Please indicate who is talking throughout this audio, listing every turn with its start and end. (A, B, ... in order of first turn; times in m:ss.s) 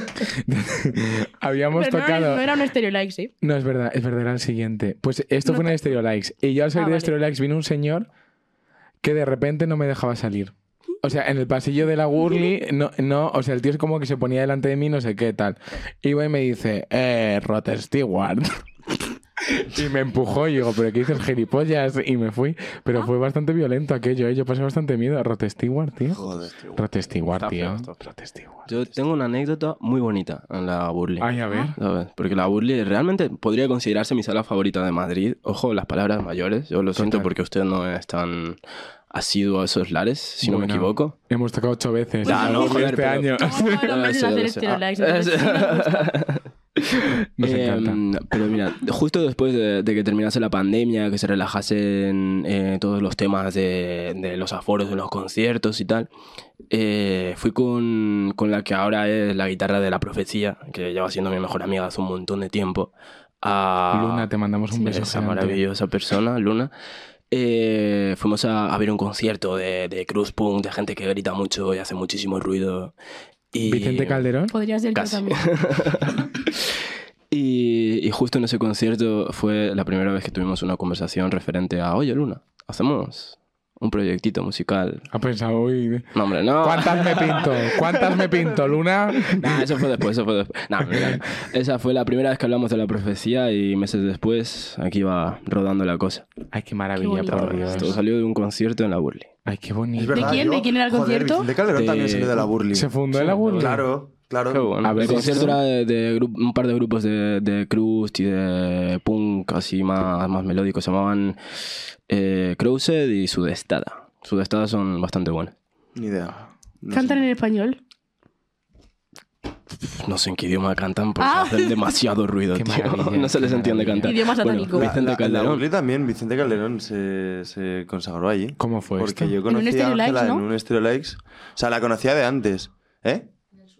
0:00.3-0:02.5 A
0:01.7-0:03.3 B
0:03.4-0:08.1 A
0:06.7-0:07.1 B
0:09.0-0:18.5 A
0:19.4-0:26.2 A
0:26.1-0:28.0 C
0:26.2-0:26.5 D
0:26.8-0:28.7 A
0:28.6-0:38.6 C
0:31.2-0:31.8 A
0:36.9-0:37.3 A
0:39.1-0:41.1 C
0:40.4-0:43.8 A
0:42.2-0:46.2 B
0:42.2-0:56.1 C
0:47.4-0:48.0 A
0:56.7-1:02.9 C
1:03.4-1:06.7 C
1:03.9-1:05.6 A
1:07.3-1:12.9 C
1:13.5-1:14.2 C
1:13.6-1:14.5 A
1:14.5-1:15.5 B
1:14.9-1:16.5 C
1:17.3-1:25.0 C
1:25.1-1:26.1 A
1:26.1-1:28.4 C
1:26.6-1:29.8 A
1:29.2-1:36.2 C
1:30.9-1:31.2 A
1:36.5-1:38.0 A
1:37.0-1:37.9 B
1:37.3-1:39.3 C
1:39.4-1:40.4 A
1:40.0-1:42.9 D
1:40.1-1:41.5 B
1:41.7-1:42.5 C
1:42.7-1:43.8 A
1:43.1-1:43.8 C
1:43.5-1:45.6 D
1:44.5-1:51.4 C
1:44.8-1:45.6 A
1:52.1-1:55.5 C
1:56.0-1:57.3 D
1:56.9-1:57.8 B
1:59.7-2:05.6 C
2:01.2-2:01.9 B
2:02.5-2:04.2 A
2:04.0-2:04.9 B
2:04.7-2:13.3 D
2:08.6-2:09.4 A
2:09.5-2:10.4 B